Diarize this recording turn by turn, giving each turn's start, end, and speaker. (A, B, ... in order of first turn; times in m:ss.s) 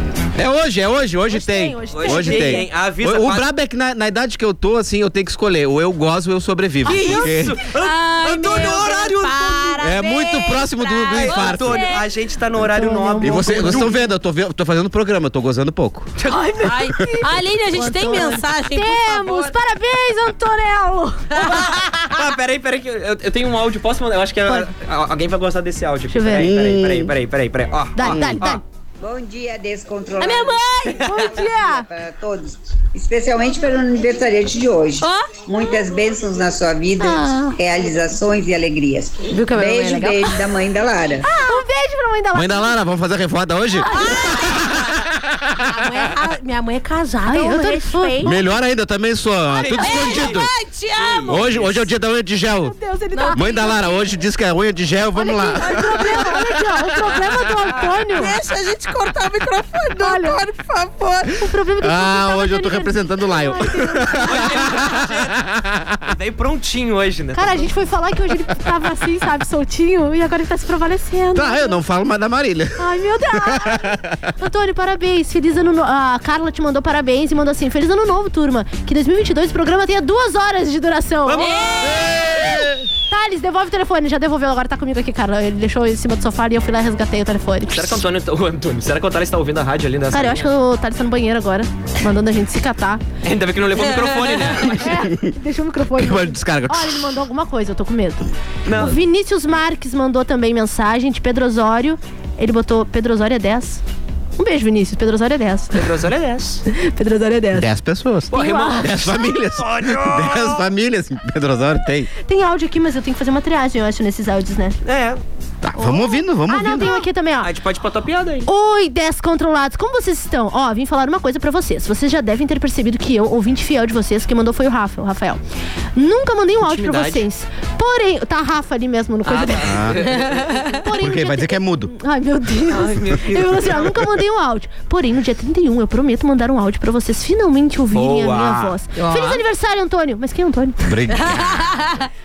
0:00.4-0:07.6 A
0:01.3-0:02.7 B
0:01.9-0:03.5 C
0:06.8-0:09.8 C
0:06.9-0:12.0 D
0:09.8-0:11.9 A
0:11.1-0:14.0 C
0:12.6-0:13.9 B
0:13.2-0:16.1 A
0:16.2-0:21.7 B
0:16.6-0:19.6 D
0:21.4-0:28.6 C
0:26.1-0:26.5 B
0:26.4-0:27.1 A
0:28.0-0:28.6 B
0:28.1-0:28.4 A
0:29.0-0:30.6 E
0:30.2-0:31.1 D
0:30.9-0:31.3 C
0:31.1-0:31.9 B
0:31.3-0:41.3 E
0:35.0-0:35.3 D
0:37.0-0:37.6 B
0:39.3-0:40.3 D
0:41.2-0:41.6 D
0:41.3-0:42.8 B
0:42.3-0:45.6 A
0:43.8-0:44.4 B
0:43.9-0:44.7 D
0:45.7-0:48.4 D
0:47.3-0:48.4 B
0:48.2-0:50.5 A
0:49.6-0:50.4 C
0:49.8-0:51.5 D
0:51.0-0:51.8 C
0:51.3-0:52.8 A
0:52.6-0:54.1 B
0:53.1-0:53.7 D
0:53.3-0:56.4 A
0:55.2-0:58.3 B
0:55.6-0:56.4 D
0:58.1-1:01.3 D
1:00.0-1:00.4 B
1:01.3-1:04.8 B
1:01.8-1:06.0 A
1:04.2-1:05.4 C
1:06.0-1:07.7 C
1:07.4-1:11.8 B
1:11.4-1:14.1 A
1:12.8-1:28.0 B
1:21.3-1:21.8 C
1:21.4-1:22.2 D
1:21.9-1:22.7 A
1:27.7-1:30.5 C
1:30.1-1:33.0 B
1:33.2-1:35.0 C
1:34.7-1:43.8 B
1:36.0-1:37.2 A
1:38.7-1:39.0 C
1:44.4-1:45.9 B
1:45.7-1:46.6 C
1:46.7-1:47.7 B
1:47.5-1:52.1 A
1:48.3-1:49.2 B
1:48.3-1:50.6 C
1:52.2-1:54.8 B
1:54.8-1:55.2 C
1:55.6-1:57.1 A
1:55.8-1:57.5 B
1:57.4-1:58.5 C
1:58.5-2:05.4 B
2:06.0-2:21.0 B
2:06.6-2:07.3 C
2:09.2-2:10.6 C
2:09.6-2:10.0 A
2:10.1-2:10.7 D
2:11.0-2:11.9 A
2:12.7-2:14.0 C
2:17.9-2:19.0 C
2:19.0-2:19.4 D
2:20.8-2:21.7 A
2:21.1-2:22.1 D